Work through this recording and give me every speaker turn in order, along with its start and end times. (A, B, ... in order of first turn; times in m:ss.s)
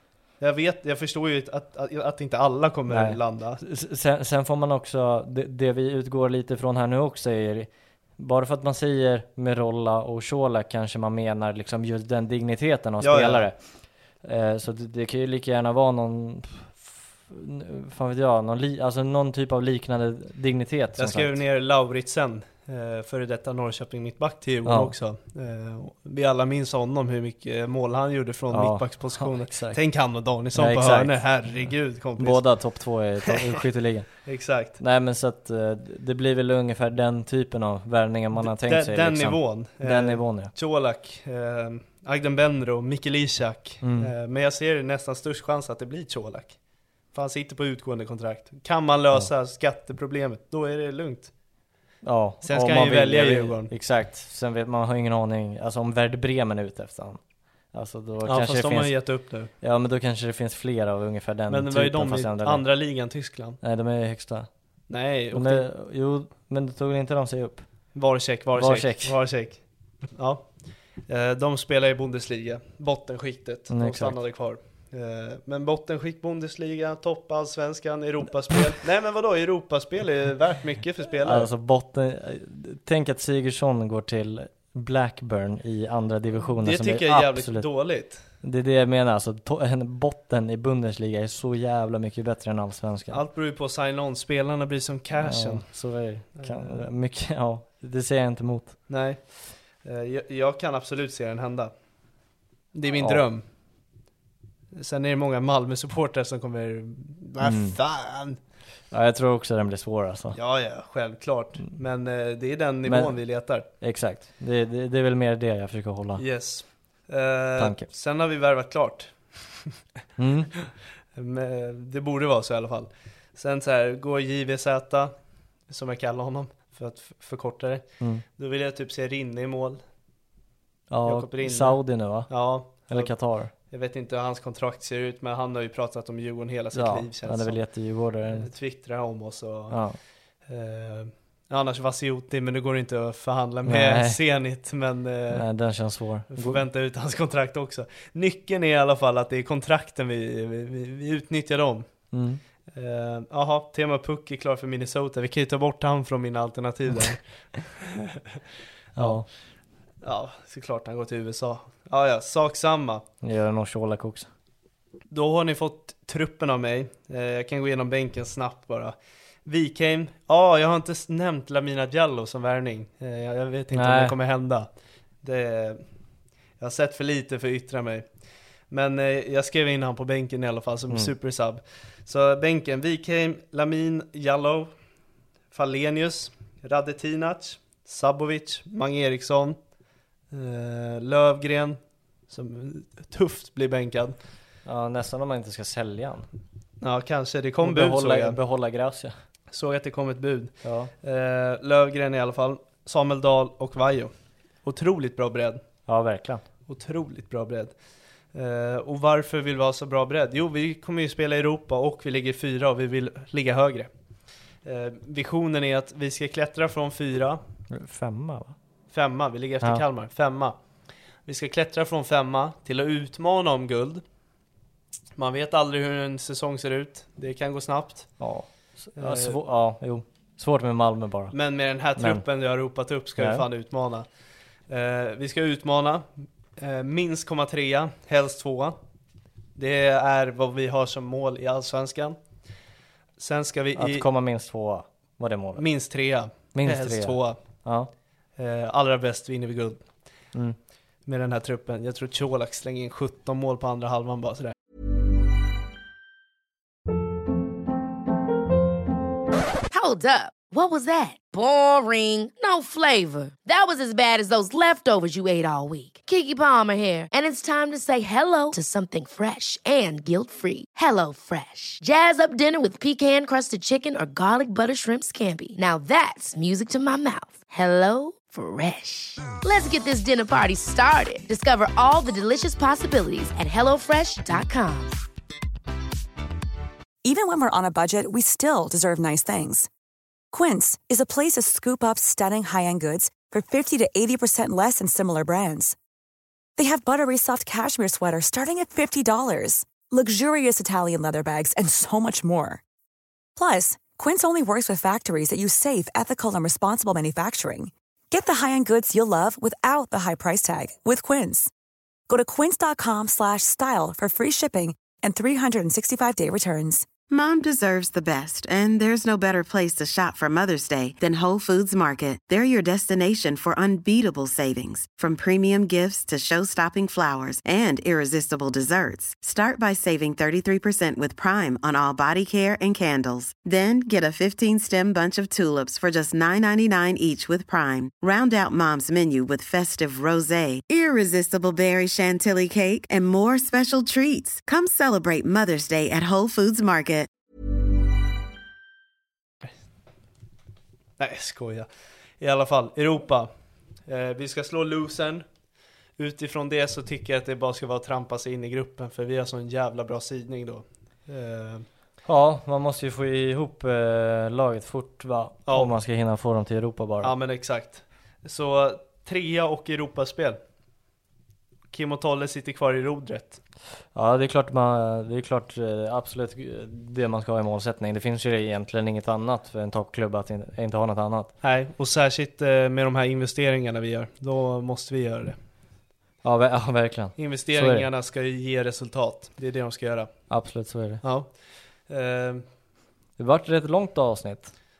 0:00.4-0:03.6 A
0:02.9-0:13.6 B
0:13.0-0:13.5 A
0:14.2-0:21.4 B
0:21.0-0:32.4 A
0:24.6-0:24.9 B
0:28.5-0:29.8 B
0:30.5-0:34.1 B
0:34.2-0:34.8 A
0:34.8-0:40.5 B
0:38.4-0:46.6 A
0:43.8-0:44.1 B
0:47.1-0:51.3 A
0:52.0-0:57.2 B
0:52.4-0:53.7 A
0:57.7-0:59.0 B
0:58.2-0:59.5 A
0:59.6-1:02.6 B
1:01.5-1:03.6 A
1:03.6-1:04.5 B
1:04.9-1:05.7 A
1:05.3-1:07.6 B
1:07.9-1:09.6 A
1:08.6-1:09.2 B
1:10.1-1:10.4 A
1:11.1-1:21.5 A
1:13.7-1:14.2 B
1:21.2-1:27.6 B
1:26.6-1:28.2 A
1:28.4-1:33.2 B
1:33.1-1:35.7 A
1:35.2-1:38.8 B
1:36.4-1:36.9 A
1:38.9-1:39.2 A
1:39.8-1:41.7 A
1:42.7-1:43.4 A
1:43.0-1:43.2 B
1:44.7-1:48.4 A
1:47.4-1:47.8 B
1:48.9-1:50.4 B
1:50.3-1:53.6 A
1:52.8-1:53.2 B
1:53.8-1:56.2 B
1:56.2-1:59.8 A
1:57.6-1:57.9 B
2:00.2-2:00.5 B
2:01.1-2:05.1 A
2:05.7-2:09.8 A
2:10.9-2:13.5 B
2:11.0-2:13.1 A
2:13.7-2:17.6 A
2:16.7-2:18.5 B
2:18.3-2:19.8 A
2:19.7-2:20.0 B
2:20.5-2:25.5 A
2:23.6-2:24.2 B
2:25.3-2:26.6 B
2:26.3-2:31.9 A
2:32.1-2:32.4 B
2:32.7-2:37.2 A
2:37.7-2:38.4 A
2:38.9-2:39.3 B
2:39.0-2:39.2 A
2:40.0-2:43.0 A
2:43.2-2:44.3 B
2:45.1-2:54.7 A
2:53.7-2:54.1 B
2:55.2-2:55.8 A
2:56.6-2:58.1 A
2:58.7-3:04.7 A
3:05.5-3:09.6 A
3:10.3-3:14.1 A
3:14.6-3:16.3 B
3:16.8-3:18.4 A
3:17.6-3:19.1 B
3:19.5-3:24.1 A
3:20.6-3:20.9 B
3:24.6-3:25.6 A
3:25.9-3:26.4 B
3:26.7-3:27.7 A
3:28.3-3:33.9 A
3:34.6-3:37.4 A
3:37.7-3:38.5 B
3:38.9-3:40.6 A
3:41.2-3:44.0 A
3:45.2-3:48.1 A
3:48.2-3:51.3 B
3:49.0-3:49.4 A
3:51.3-3:54.1 A
3:52.0-3:52.2 B
3:53.2-3:53.4 B
3:54.7-3:58.8 A
3:59.5-4:02.2 A
4:03.2-4:04.1 A
4:03.8-4:05.6 B
4:05.6-4:07.4 A
4:06.5-4:07.9 B
4:08.4-4:09.8 A
4:11.0-4:14.5 A
4:19.7-4:45.0 C
4:47.0-4:49.7 D
4:50.3-4:55.8 D
4:56.6-5:02.6 D
5:03.4-5:11.5 D
5:12.1-5:16.9 D
5:17.1-5:47.1 E
5:51.0-5:53.3 A
5:53.8-5:55.2 A
5:56.0-6:01.7 A
6:02.0-6:07.1 B
6:05.4-6:05.7 A
6:07.0-6:10.4 A
6:11.7-6:13.4 A
6:13.9-6:21.3 B
6:21.4-6:25.4 A
6:26.2-6:27.9 B
6:27.2-6:30.1 A
6:30.3-6:31.0 B
6:31.0-6:31.3 A
6:31.9-6:32.4 A
6:33.2-6:34.5 B